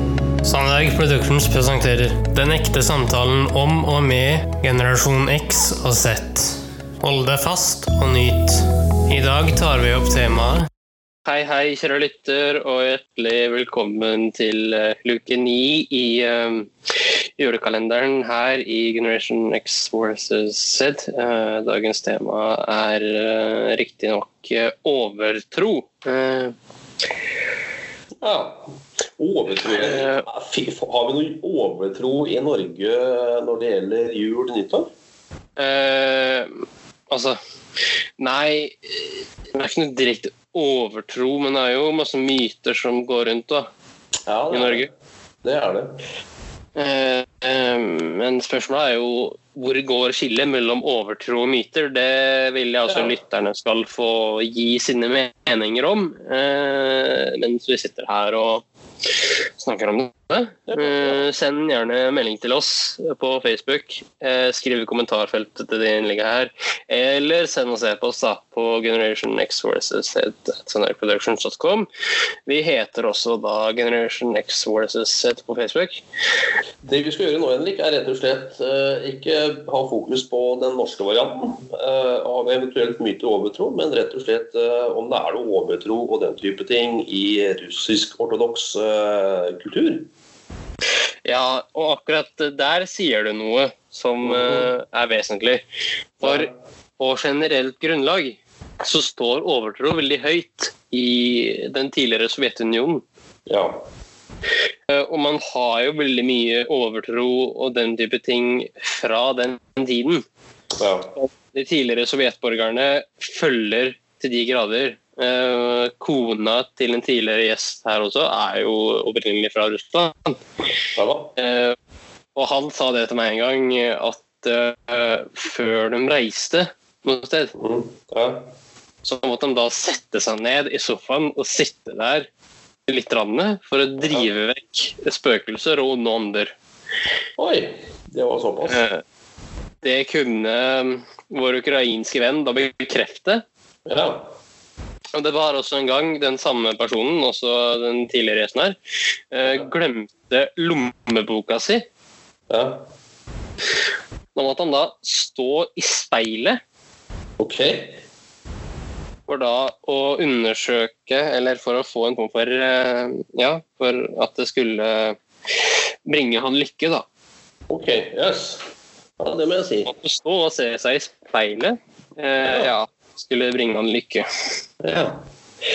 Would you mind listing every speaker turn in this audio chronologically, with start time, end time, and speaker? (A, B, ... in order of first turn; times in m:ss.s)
0:00.4-0:10.7 A
0:11.2-0:16.7 A
0:17.4-0:26.5 A
0:28.2-0:28.6 B
0:29.2-0:34.9 B
0:29.7-0:30.2 A
0:35.6-0:36.5 A
0:37.1-0:37.4 A
0:38.2-0:43.7 A
0:44.3-0:44.9 B
0:44.5-0:44.9 A
0:45.4-0:45.9 B
0:46.8-0:58.6 A
0:52.9-0:53.1 B
0:59.6-1:11.9 A
1:00.7-1:01.3 B
1:12.5-1:16.0 A
1:16.8-1:30.1 B
1:31.2-1:35.6 A
1:34.2-1:34.7 B
1:36.2-1:43.0 A
1:36.2-1:36.5 B
1:43.5-1:43.8 B
1:44.9-1:50.2 A
1:50.8-1:51.1 B
1:51.2-2:00.4 A
2:01.0-2:01.3 B
2:01.4-2:01.7 A
2:02.3-2:07.5 A
2:07.6-2:08.4 B
2:09.0-2:12.3 A
2:12.9-2:16.5 A
2:14.0-2:14.3 B
2:17.4-2:18.8 B
2:18.6-2:19.0 A
2:19.8-2:23.4 A
2:23.8-2:24.2 B
2:25.1-2:28.8 A
2:29.3-2:31.8 A
2:32.5-2:32.8 B
2:34.3-2:36.6 A
2:37.4-2:37.9 B
2:39.3-2:45.2 A
2:46.0-2:47.0 A
2:47.7-2:48.6 B
2:49.2-2:49.9 B
2:49.9-2:54.2 A
2:52.4-2:52.7 B
2:54.8-2:55.2 B